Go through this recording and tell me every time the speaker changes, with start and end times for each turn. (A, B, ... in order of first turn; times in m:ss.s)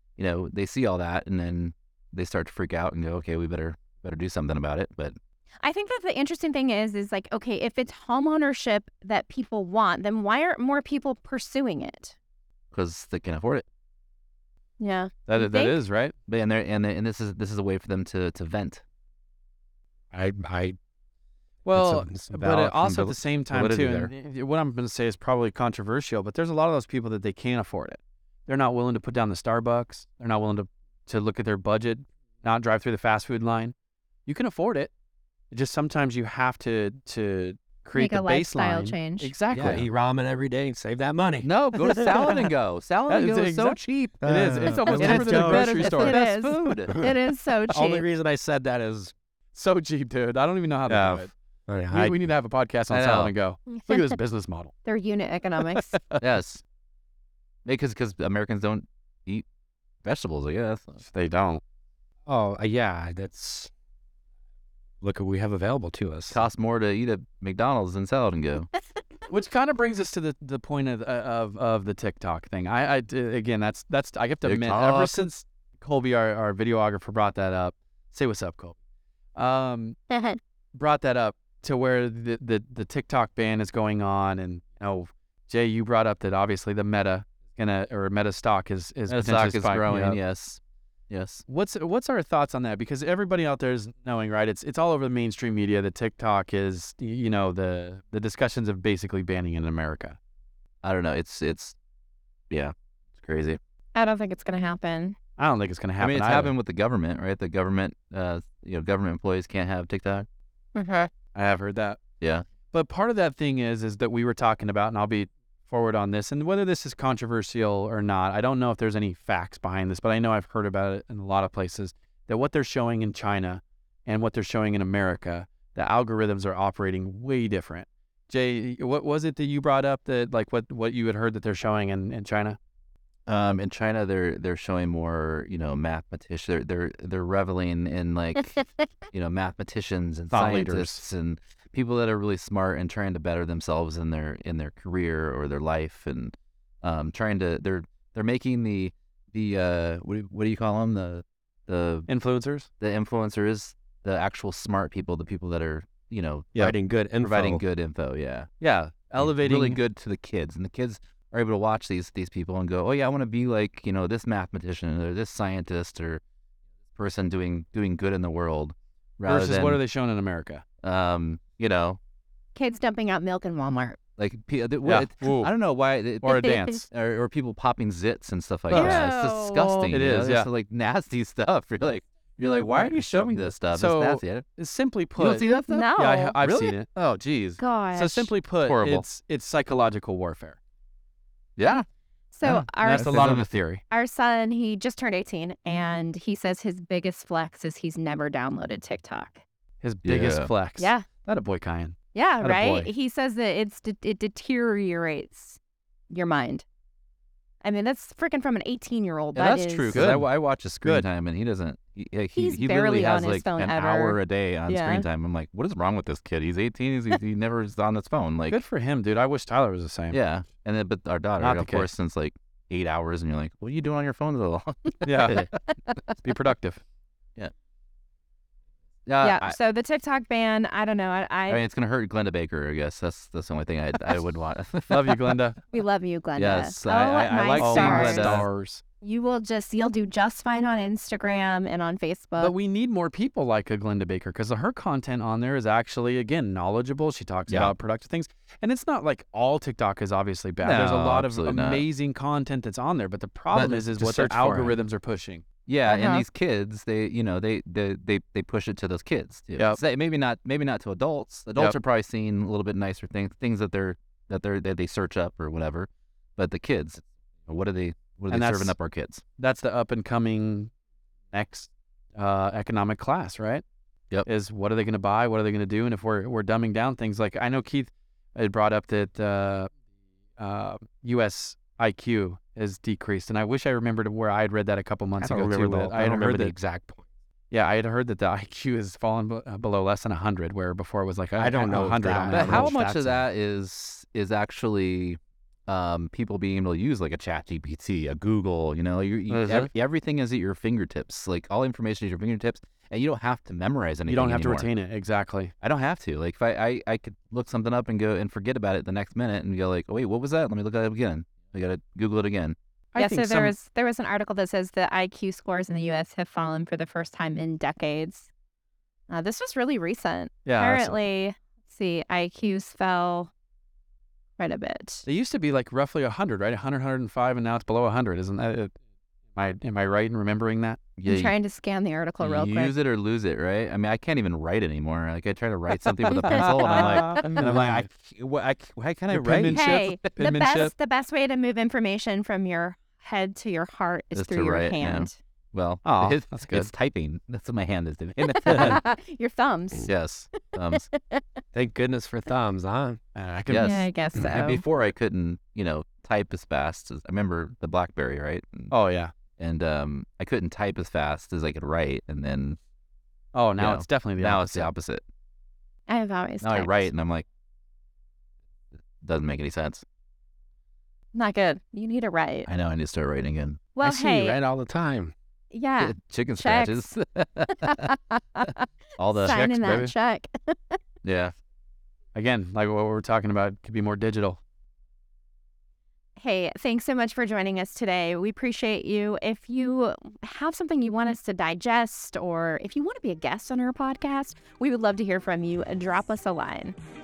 0:00.2-0:05.2 A
0:05.6-0:12.2 B
0:12.7-0:13.7 A
0:14.8-0:15.8 B
0:15.3-0:16.1 C
0:16.3-0:18.8 A
0:20.1-0:20.8 D
0:21.7-0:33.7 C
0:21.7-0:23.2 D
0:23.5-0:24.1 A
0:34.3-0:34.9 C
0:35.5-0:39.8 C
0:38.0-0:39.3 B
0:39.5-0:42.4 D
0:39.5-0:39.8 A
0:41.4-0:47.1 A
0:43.1-0:46.2 C
0:44.2-0:45.8 D
0:45.8-0:48.1 B
0:47.7-0:49.1 D
0:49.5-0:51.3 C
0:50.9-0:52.2 D
0:51.9-0:54.7 C
0:52.9-0:53.4 A
0:53.8-0:54.1 B
0:54.8-0:56.0 B
0:55.7-0:56.2 C
0:56.2-0:56.6 A
0:57.7-0:59.4 A
1:00.0-1:01.0 A
1:01.1-1:01.6 C
1:02.3-1:03.7 D
1:05.0-1:06.4 D
1:06.3-1:08.7 A
1:09.3-1:18.7 C
1:14.4-1:15.3 A
1:19.4-1:20.0 C
1:20.1-1:20.4 B
1:20.7-1:30.2 C
1:29.1-1:31.4 A
1:31.5-1:40.2 C
1:40.8-1:41.8 A
1:42.5-1:43.6 A
1:44.0-1:45.2 B
1:45.4-1:46.5 C
1:46.0-1:50.3 A
1:50.8-1:51.1 B
1:51.3-1:52.0 C
1:52.2-1:52.5 A
1:52.7-2:12.6 C
2:13.3-2:32.1 A
2:20.3-2:21.0 C
2:32.1-2:32.7 C
2:32.8-2:38.5 A
2:36.6-2:37.6 D
2:38.6-2:39.8 C
2:39.2-2:46.2 A
2:47.0-2:49.8 A
2:49.3-2:50.6 C
2:50.8-2:52.0 A
2:52.6-2:54.0 B
2:54.2-3:04.4 A
2:54.8-2:55.5 C
2:56.2-2:56.8 C
2:58.7-3:00.5 C
2:58.7-2:59.7 B
3:02.5-3:06.9 C
3:05.2-3:07.6 A
3:05.7-3:06.4 B
3:07.6-3:08.3 B
3:07.9-3:10.6 C
3:08.7-3:09.1 A
3:11.6-3:11.8 A
3:12.3-3:13.2 B
3:12.4-3:13.6 A
3:12.8-3:13.8 C
3:13.9-3:19.4 B
3:19.8-3:22.9 C
3:20.0-3:20.5 A
3:20.8-3:21.1 B
3:22.1-3:25.6 B
3:26.1-3:26.6 B
3:27.6-3:30.0 B
3:29.4-3:38.6 A
3:29.9-3:30.3 C
3:32.3-3:35.1 B
3:38.5-3:40.2 C
3:40.1-3:46.2 A
3:41.4-3:41.9 C
3:45.0-3:45.5 C
3:46.2-3:46.8 C
3:49.1-3:49.6 A
3:49.2-3:51.6 B
3:51.5-3:55.3 A
3:54.9-3:55.6 C
3:55.7-3:58.4 B
3:56.4-3:58.5 A
3:57.5-3:58.8 C
3:59.0-4:02.5 B
4:02.4-4:15.4 C
4:07.5-4:07.7 A
4:10.6-4:11.8 A
4:13.5-4:14.8 A
4:15.7-4:29.2 A
4:15.9-4:16.2 B
4:28.3-4:28.8 C
4:29.4-4:30.7 C
4:31.3-4:33.6 C
4:34.2-4:39.7 C
4:40.4-4:46.6 C
4:45.2-4:47.0 D
4:47.5-4:52.7 C
4:51.4-4:53.2 D
4:52.3-5:04.7 A
4:59.3-4:59.7 C
5:04.1-5:05.5 C
5:05.6-5:12.6 A
5:12.9-5:13.5 C
5:13.0-5:18.3 B
5:19.1-5:23.3 B
5:20.5-5:21.0 C
5:24.4-5:25.0 B
5:25.0-5:28.7 C
5:29.3-5:30.8 C
5:31.0-5:31.4 A
5:31.1-5:32.7 B
5:32.2-5:39.9 A
5:35.7-5:37.8 C
5:36.3-5:37.5 B
5:39.1-5:40.7 C
5:39.5-5:45.2 B
5:44.1-5:48.8 A
5:45.8-5:46.7 C
5:48.3-5:49.9 B
5:49.8-5:50.9 A
5:50.7-5:51.2 B
5:51.5-5:53.0 D
5:53.2-5:53.9 C
5:53.5-5:58.7 A
5:53.6-5:54.6 B
5:58.7-5:59.1 C
5:59.4-6:02.6 A
6:03.3-6:04.7 C
6:03.6-6:05.0 A
6:05.9-6:06.9 B
6:06.4-6:07.3 A
6:09.0-6:09.8 A
6:11.1-6:12.5 B
6:12.5-6:13.6 A
6:13.8-6:14.4 B
6:13.8-6:15.1 D
6:15.5-6:16.9 B
6:15.8-6:17.9 A
6:17.6-6:20.8 B
6:19.0-6:19.9 A
6:21.0-6:21.3 A
6:22.2-6:24.4 C
6:26.2-6:36.8 B